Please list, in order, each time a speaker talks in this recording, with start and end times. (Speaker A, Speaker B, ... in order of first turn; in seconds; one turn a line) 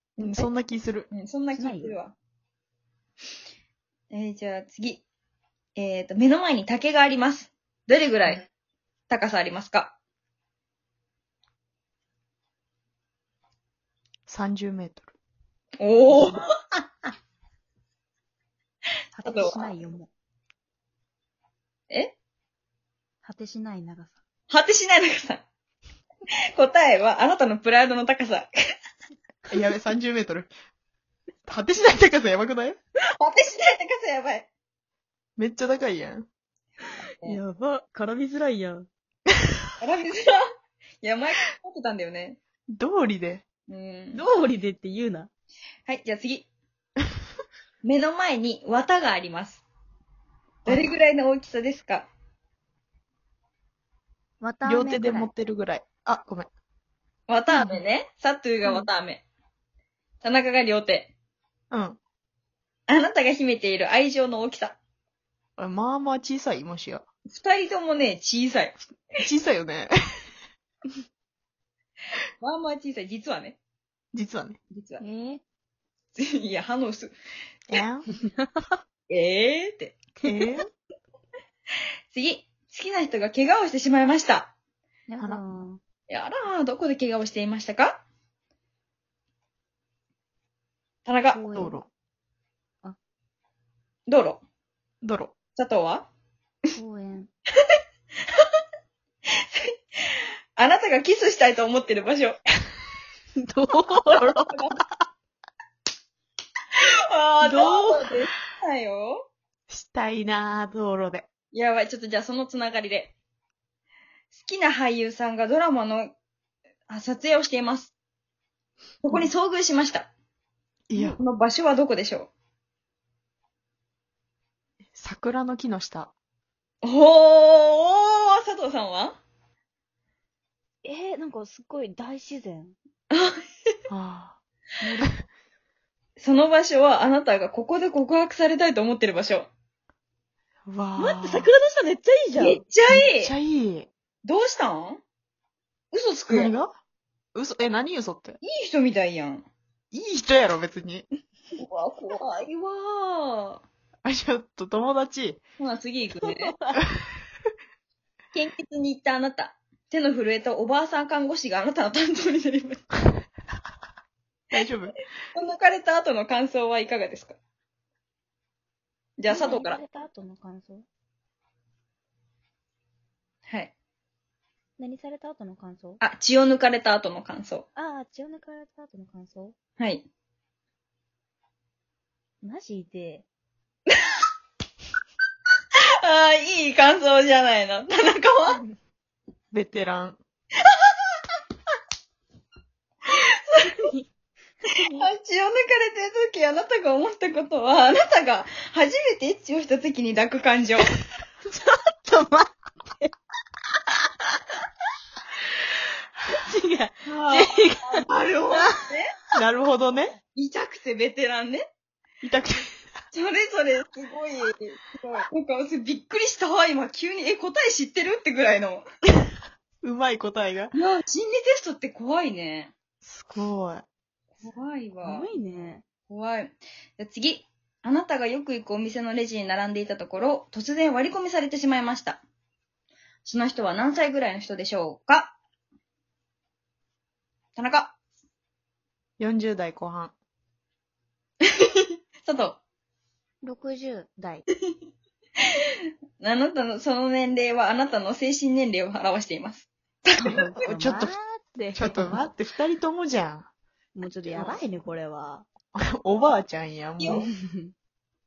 Speaker A: 0.2-1.1
Speaker B: 1.1-2.2
Speaker C: 1.5-1.9
Speaker B: 4.1-5.0
Speaker B: 5.8-8.4
Speaker B: 9.1-9.9
Speaker A: 14.3-15.1
Speaker B: 15.8-16.4
Speaker C: 19.2-20.1
Speaker B: 19.2-19.7
Speaker C: 23.2-24.1
Speaker B: 24.5-25.4
Speaker B: 26.6-28.5
Speaker A: 29.5-30.5
Speaker A: 31.5-32.8
Speaker B: 33.2-34.5
Speaker A: 35.4-36.3
Speaker C: 37.2-38.9
Speaker B: 39.8-40.4
Speaker B: 41.0-42.4
Speaker A: 42.7-43.5
Speaker B: 43.7-44.3
Speaker C: 44.1-45.3
Speaker B: 45.9-46.5
Speaker B: 47.8-49.6
Speaker B: 50.6-52.1
Speaker A: 50.7-51.0
Speaker C: 54.4-55.3
Speaker A: 54.6-56.5
Speaker B: 57.3-59.2
Speaker C: 57.5-57.8
Speaker C: 58.6-58.9
Speaker B: 60.2-61.1
Speaker A: 61.7-62.0
Speaker B: 62.9-64.8
Speaker A: 65.6-67.0
Speaker B: 67.3-68.8
Speaker A: 69.2-69.9
Speaker B: 72.4-73.6
Speaker A: 74.1-74.6
Speaker B: 74.7-75.0
Speaker C: 75.0-75.4
Speaker B: 76.2-77.2
Speaker A: 77.7-78.1
Speaker C: 78.1-78.5
Speaker B: 79.1-80.0
Speaker C: 80.2-80.5
Speaker A: 80.2-80.7
Speaker B: 82.1-84.5
Speaker C: 85.1-85.8
Speaker B: 86.1-88.0
Speaker B: 91.0-91.4
Speaker C: 91.3-91.8
Speaker A: 91.5-91.9
Speaker B: 94.1-94.4
Speaker A: 95.0-95.3
Speaker B: 95.6-96.1
Speaker C: 96.8-97.3
Speaker B: 99.4-102.4
Speaker C: 103.4-104.5
Speaker B: 104.0-104.8
Speaker B: 106.8-109.3
Speaker C: 107.4-108.1
Speaker A: 109.7-111.3
Speaker B: 111.5-113.2
Speaker B: 114.3-116.2
Speaker B: 116.9-117.9
Speaker B: 119.0-120.1
Speaker A: 120.9-121.2
Speaker B: 120.9-122.3
Speaker A: 124.9-126.1
Speaker B: 126.8-129.2
Speaker C: 130.8-132.8
Speaker B: 133.1-133.4
Speaker A: 133.9-134.4
Speaker C: 134.8-135.1
Speaker B: 136.2-139.5
Speaker A: 140.7-141.5
Speaker C: 141.0-142.6
Speaker B: 142.4-143.3
Speaker A: 142.9-143.9
Speaker B: 144.2-145.0
Speaker B: 145.9-146.5
Speaker A: 146.3-146.7
Speaker A: 147.3-148.4
Speaker B: 148.4-149.5
Speaker A: 149.9-151.1
Speaker B: 151.6-153.6
Speaker A: 154.0-155.4
Speaker B: 155.6-156.5
Speaker C: 156.2-156.8
Speaker B: 158.3-162.8
Speaker A: 164.5-164.9
Speaker B: 165.3-167.4
Speaker B: 169.2-169.8
Speaker C: 169.3-170.8
Speaker B: 173.5-173.7
Speaker C: 174.8-176.0
Speaker B: 176.0-177.7
Speaker C: 177.8-179.5
Speaker B: 179.8-180.1
Speaker C: 182.4-183.2
Speaker B: 186.0-188.6
Speaker A: 189.5-190.2
Speaker B: 190.7-191.0
Speaker B: 193.1-193.8
Speaker C: 193.7-194.1
Speaker C: 194.7-195.1
Speaker B: 194.9-200.9
Speaker C: 201.5-202.5
Speaker C: 206.3-208.0
Speaker B: 207.1-209.1
Speaker A: 209.3-210.2
Speaker B: 210.3-211.6
Speaker A: 212.2-212.7
Speaker B: 213.1-218.8
Speaker A: 219.8-220.7
Speaker B: 220.7-222.7
Speaker A: 223.0-223.8
Speaker B: 224.4-225.3
Speaker C: 225.0-225.8
Speaker B: 226.1-232.2
Speaker B: 233.2-235.4
Speaker B: 237.6-238.0
Speaker A: 239.2-240.1
Speaker B: 241.5-242.6
Speaker C: 243.4-244.4
Speaker B: 246.2-250.6
Speaker A: 250.2-251.1
Speaker C: 250.3-252.2
Speaker A: 251.7-253.5
Speaker C: 254.0-255.5
Speaker A: 254.3-254.6
Speaker A: 255.8-257.3
Speaker B: 257.0-257.2
Speaker C: 257.1-257.7